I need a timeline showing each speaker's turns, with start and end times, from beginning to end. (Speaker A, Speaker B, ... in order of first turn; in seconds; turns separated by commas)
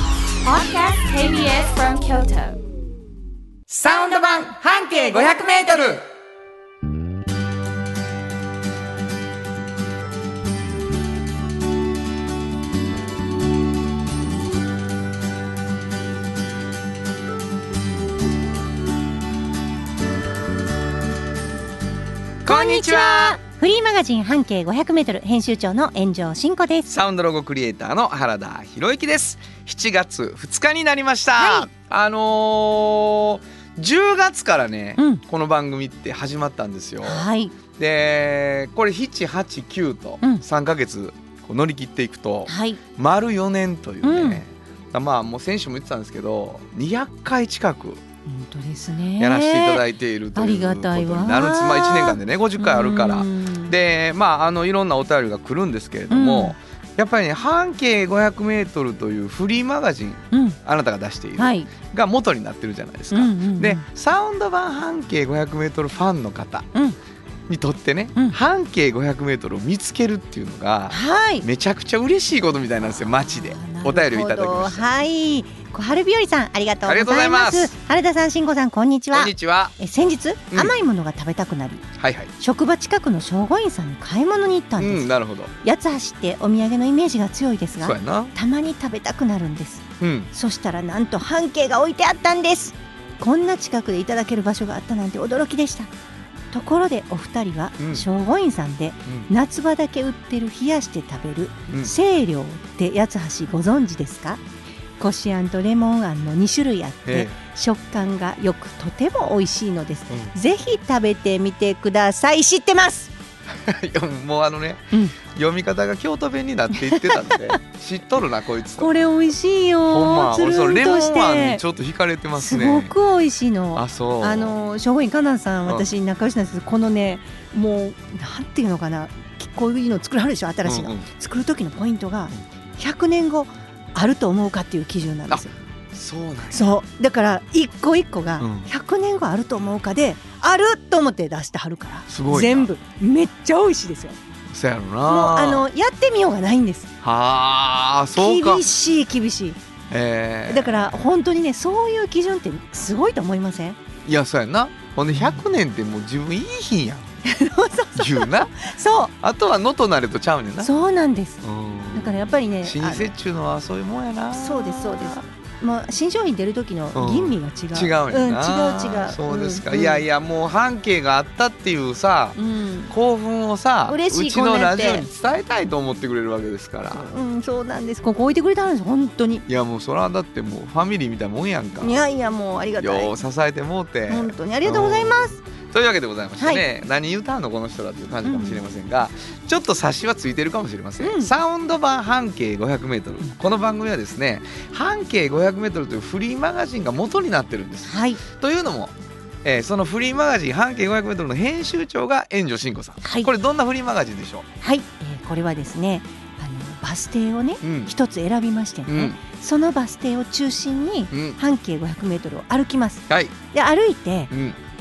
Speaker A: 0.4-2.6, Speaker B: 3.7-6.0, Speaker B: 22.4-23.4, Speaker C: 22.4-26.9, Speaker B: 26.9-48.0, Speaker C: 31.4-31.7, Speaker C: 35.0-35.2, Speaker C: 37.0-37.5, Speaker C: 42.5-42.8, Speaker C: 44.0-44.4, Speaker C: 48.3-49.8, Speaker B: 49.2-66.7, Speaker C: 50.4-53.7, Speaker C: 56.1-56.6, Speaker C: 60.3-60.6, Speaker C: 61.4-61.7, Speaker C: 63.1-63.9, Speaker B: 67.5-74.9, Speaker C: 70.9-71.5, Speaker C: 73.1-81.9, Speaker B: 76.9-77.7, Speaker B: 79.1-79.8, Speaker B: 82.0-82.3, Speaker C: 82.4-95.9, Speaker B: 84.8-85.5, Speaker B: 87.8-88.3, Speaker B: 90.0-90.3, Speaker C: 96.5-104.4, Speaker B: 97.8-98.1, Speaker B: 101.7-101.9, Speaker C: 105.0-113.1, Speaker B: 107.1-107.4, Speaker B: 113.5-118.9, Speaker C: 116.8-117.6, Speaker C: 118.8-121.6, Speaker B: 119.9-122.9, Speaker C: 122.3-135.5, Speaker B: 123.8-124.6, Speaker B: 130.6-131.1, Speaker B: 135.3-136.7, Speaker C: 136.5-144.2, Speaker B: 138.4-138.7, Speaker B: 142.1-142.7, Speaker B: 144.5-145.7, Speaker C: 145.1-146.9, Speaker B: 147.0-148.7, Speaker C: 148.2-149.6, Speaker B: 149.9-150.9, Speaker C: 150.5-153.8, Speaker B: 154.1-157.1, Speaker C: 157.2-159.1, Speaker B: 157.9-158.6, Speaker B: 159.2-160.7, Speaker C: 160.6-161.4, Speaker B: 161.4-165.2, Speaker C: 161.9-163.1, Speaker C: 164.3-170.0, Speaker B: 166.9-172.4, Speaker C: 172.4-172.9, Speaker B: 172.9-177.1, Speaker C: 173.9-175.1, Speaker C: 176.9-179.5, Speaker B: 179.5-182.0, Speaker C: 181.8-183.1, Speaker B: 182.8-204.5, Speaker C: 184.1-185.4, Speaker C: 186.4-186.6, Speaker C: 188.2-188.6, Speaker C: 191.0-191.3, Speaker C: 197.9-198.2, Speaker C: 203.0-203.3, Speaker C: 204.6-214.3, Speaker B: 207.6-207.9, Speaker B: 208.9-209.2, Speaker B: 211.1-211.4, Speaker B: 213.1-213.4, Speaker B: 214.3-214.6